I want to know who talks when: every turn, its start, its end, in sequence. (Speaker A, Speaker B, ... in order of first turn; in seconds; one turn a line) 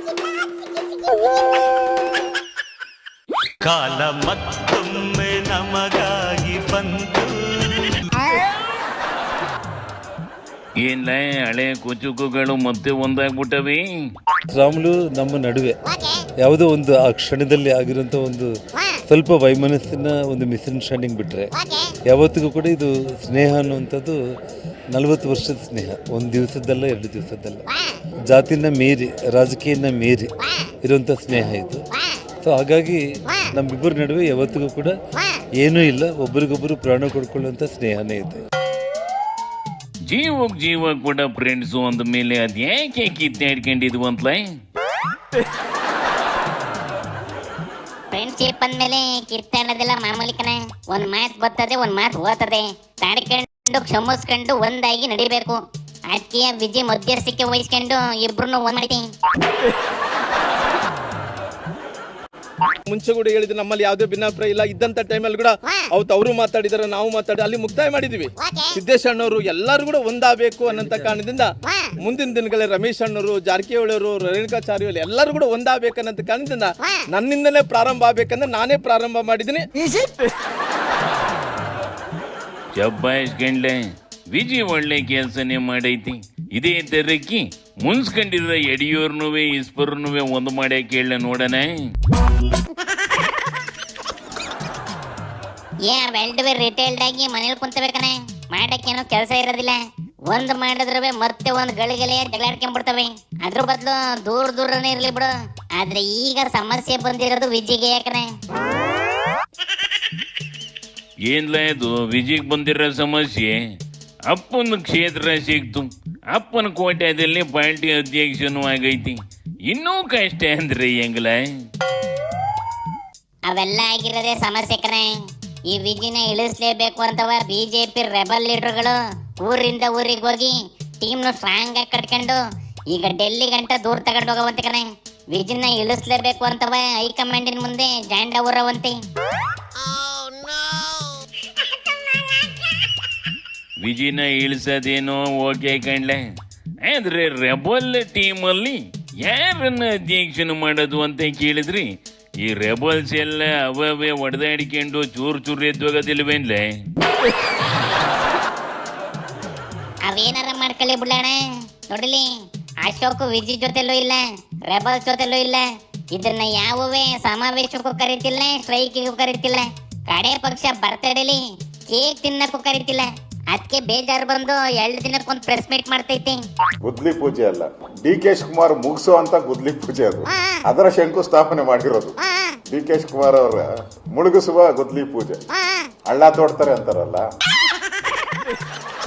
Speaker A: 3.6-8.0
Speaker B: 10.8-13.8
Speaker C: 14.5-15.8
Speaker C: 16.4-18.5
Speaker C: 19.1-21.5
Speaker C: 22.1-24.2
Speaker C: 24.9-27.6
Speaker C: 28.3-30.3
Speaker C: 30.8-31.8
Speaker C: 32.4-34.9
Speaker C: 35.6-38.4
Speaker B: 40.0-44.5
Speaker D: 48.1-59.0
Speaker E: 62.9-71.5
Speaker E: 72.0-79.7
Speaker B: 82.8-83.8
Speaker B: 84.3-91.9
Speaker D: 95.8-108.3
Speaker B: 111.3-113.6
Speaker B: 114.3-121.4
Speaker D: 123.5-125.1
Speaker D: 125.7-132.4
Speaker D: 132.9-139.0
Speaker B: 143.8-146.2
Speaker B: 146.8-151.9
Speaker B: 152.4-156.7
Speaker D: 160.1-161.4
Speaker D: 161.9-162.2
Speaker D: 162.8-176.4
Speaker F: 176.8-182.2
Speaker F: 182.7-185.4
Speaker F: 186.1-187.2